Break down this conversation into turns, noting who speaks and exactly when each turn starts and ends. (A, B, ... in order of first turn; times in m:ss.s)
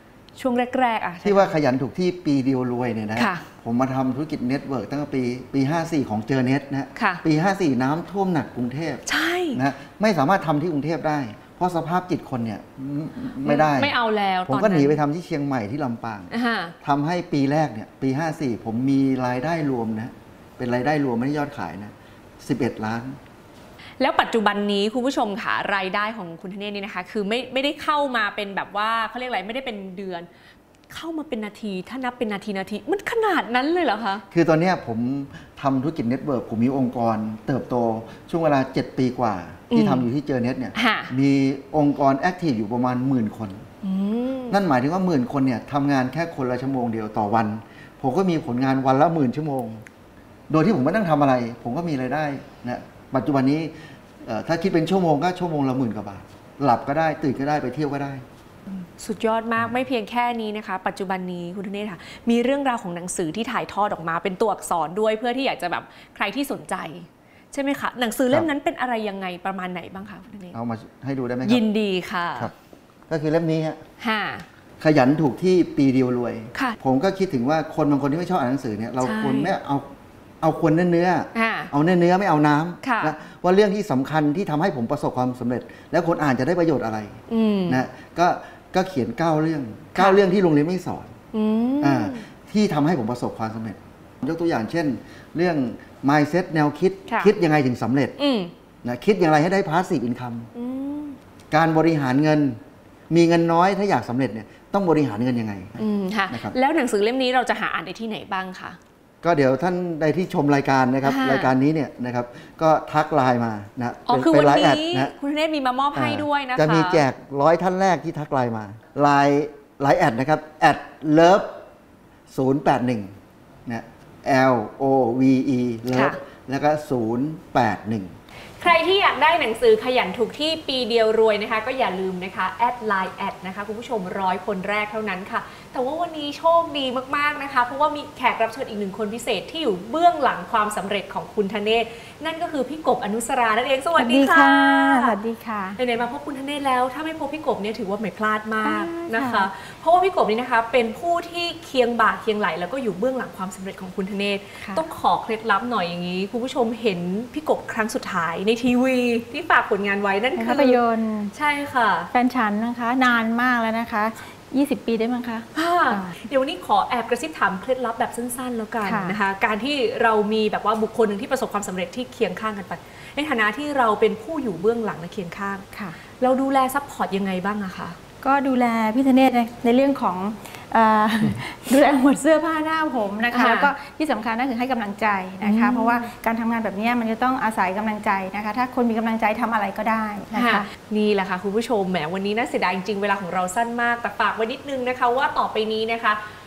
0:00.4-0:01.6 A
0:01.2-0:13.9 B
0:03.2-0:03.4 A
0:07.0-0:07.2 A
0:09.1-0:09.6 A
0:13.4-0:15.0 A
0:14.5-0:23.2 B
0:16.3-0:16.8 A
0:24.0-0:30.3 A
0:30.9-0:34.2 A
0:34.3-0:43.6 B
0:39.7-0:40.1 A
0:40.8-0:41.1 A
0:43.8-0:44.6 A
0:44.5-0:49.8 B
0:50.5-0:58.2 B
0:58.7-1:10.6 A
1:10.5-1:11.6 B
1:11.4-1:12.5 A
1:13.1-1:13.8 B
1:14.0-1:14.5 A
1:14.8-1:31.1 B
1:19.0-1:19.5 A
1:21.4-1:21.7 A
1:22.8-1:23.1 A
1:27.3-1:27.8 A
1:30.0-1:30.2 A
1:31.3-1:32.3 A
1:31.8-1:38.2 B
1:37.1-1:37.3 A
1:38.2-1:38.5 A
1:38.8-1:40.5 B
1:40.6-1:41.2 A
1:41.5-1:42.6 B
1:43.1-1:46.6 B
1:45.8-1:48.8 A
1:49.2-1:55.1 B
1:51.0-1:51.5 A
1:54.1-1:57.0 A
1:56.0-2:01.5 B
2:02.3-2:03.1 B
2:03.7-2:08.2 B
2:05.9-2:06.2 A
2:08.6-2:25.2 A
2:24.0-2:25.8 C
2:25.8-2:40.8 A
2:28.6-2:29.5 C
2:40.4-2:41.3 C
2:41.3-2:42.1 A
2:42.1-2:46.2 C
2:45.5-2:58.0 A
2:48.8-2:49.2 C
2:58.2-3:10.7 C
3:03.3-3:03.7 A
3:05.4-3:06.1 A
3:10.3-3:16.2 A